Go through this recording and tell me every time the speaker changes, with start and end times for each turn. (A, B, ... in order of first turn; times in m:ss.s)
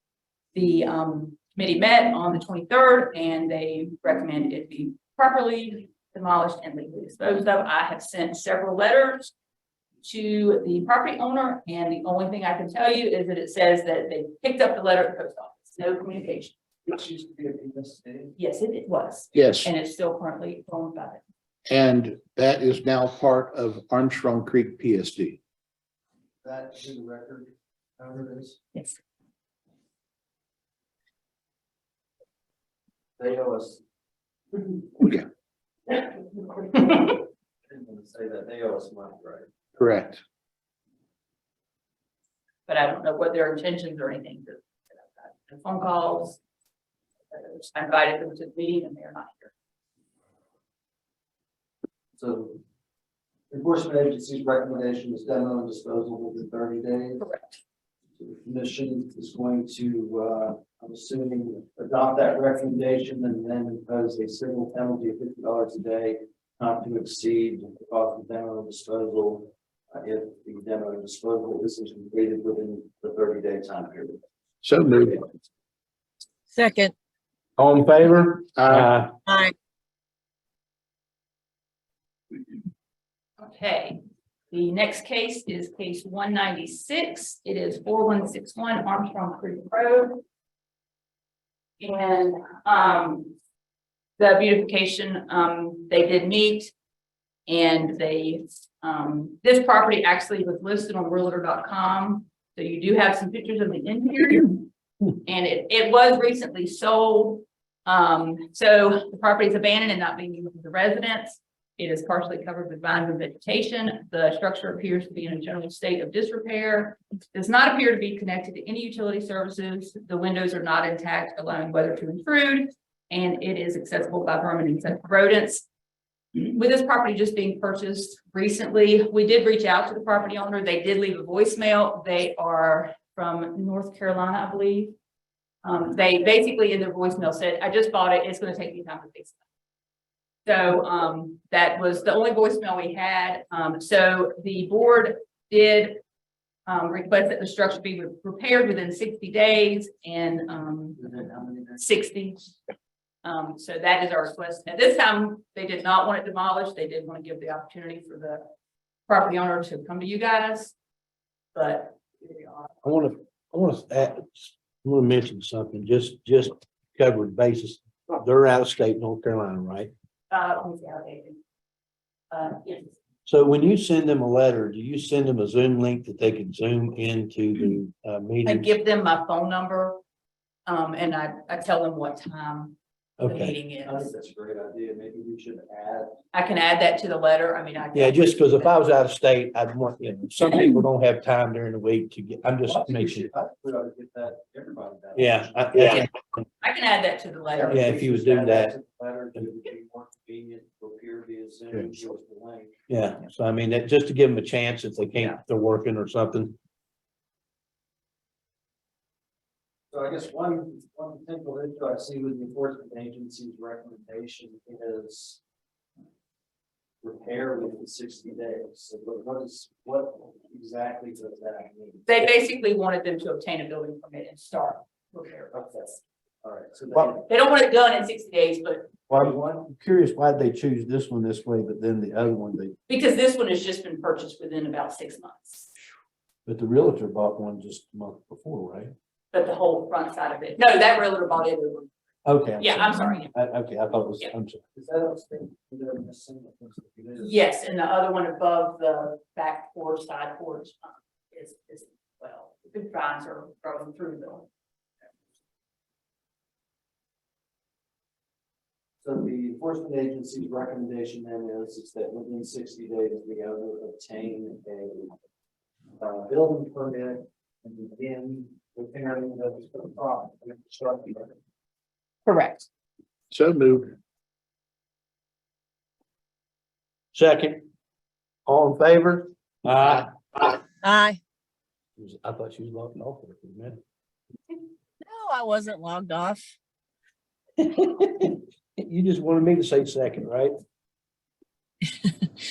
0:00.5-0:09.3 A
0:10.0-0:16.6 A
0:16.9-0:18.3 B
0:18.4-0:21.2 A
0:19.3-0:19.7 C
0:21.7-0:25.4 C
0:26.4-0:28.6 B
0:33.2-0:33.8 B
0:34.5-0:34.9 B
0:35.0-0:35.3 C
0:35.9-0:39.5 B
0:39.8-0:40.2 C
0:42.7-0:46.4 A
0:47.3-0:49.5 A
0:52.2-0:52.6 B
0:53.5-0:57.3 B
0:57.2-0:57.6 A
0:58.2-1:14.2 B
1:14.6-1:15.2 C
1:16.5-1:16.9 D
1:17.6-1:19.1 E
1:18.6-1:18.9 C
1:19.3-1:19.5 D
1:23.4-1:24.0 A
1:24.5-1:30.2 A
1:31.8-1:33.4 A
1:34.2-1:36.7 A
1:37.5-1:44.7 A
1:45.2-2:05.7 A
2:06.3-2:14.9 A
2:15.6-2:19.4 A
2:20.4-2:26.0 A
2:26.7-2:31.0 A
2:31.0-2:31.8 B
2:31.8-2:32.5 A
2:33.2-2:38.5 A
2:39.1-2:40.8 A
2:41.5-2:42.8 A
2:42.8-2:49.9 E
2:50.3-2:51.4 A
2:52.3-2:53.0 A
2:53.3-2:58.8 E
2:58.4-3:00.0 A
3:00.7-3:04.1 A
3:03.2-3:03.6 E
3:03.8-3:06.2 B
3:06.3-3:08.7 A
3:07.9-3:13.3 E
3:12.7-3:16.0 B
3:15.2-3:16.4 E
3:16.6-3:17.9 A
3:17.6-3:22.7 B
3:17.7-3:18.8 E
3:22.9-3:26.6 E
3:29.9-3:35.4 B
3:37.0-3:42.1 B
3:42.1-3:46.0 A
3:45.5-3:45.9 B
3:46.4-3:47.2 B
3:47.2-3:48.9 A
3:49.1-3:49.5 B
3:49.1-3:52.8 E
3:52.9-3:55.7 A
3:56.5-3:58.9 E
3:59.3-4:01.9 A
4:02.2-4:04.6 E
4:02.6-4:03.4 A
4:04.8-4:07.4 B
4:07.2-4:14.5 A
4:19.0-4:25.2 B
4:26.0-4:31.3 B
4:32.3-4:32.7 A
4:33.3-4:34.0 C
4:37.1-4:37.7 E
4:38.5-4:40.6 E
4:40.8-4:41.2 D
4:42.0-4:43.8 E
4:45.0-4:46.4 D
4:47.6-4:50.6 E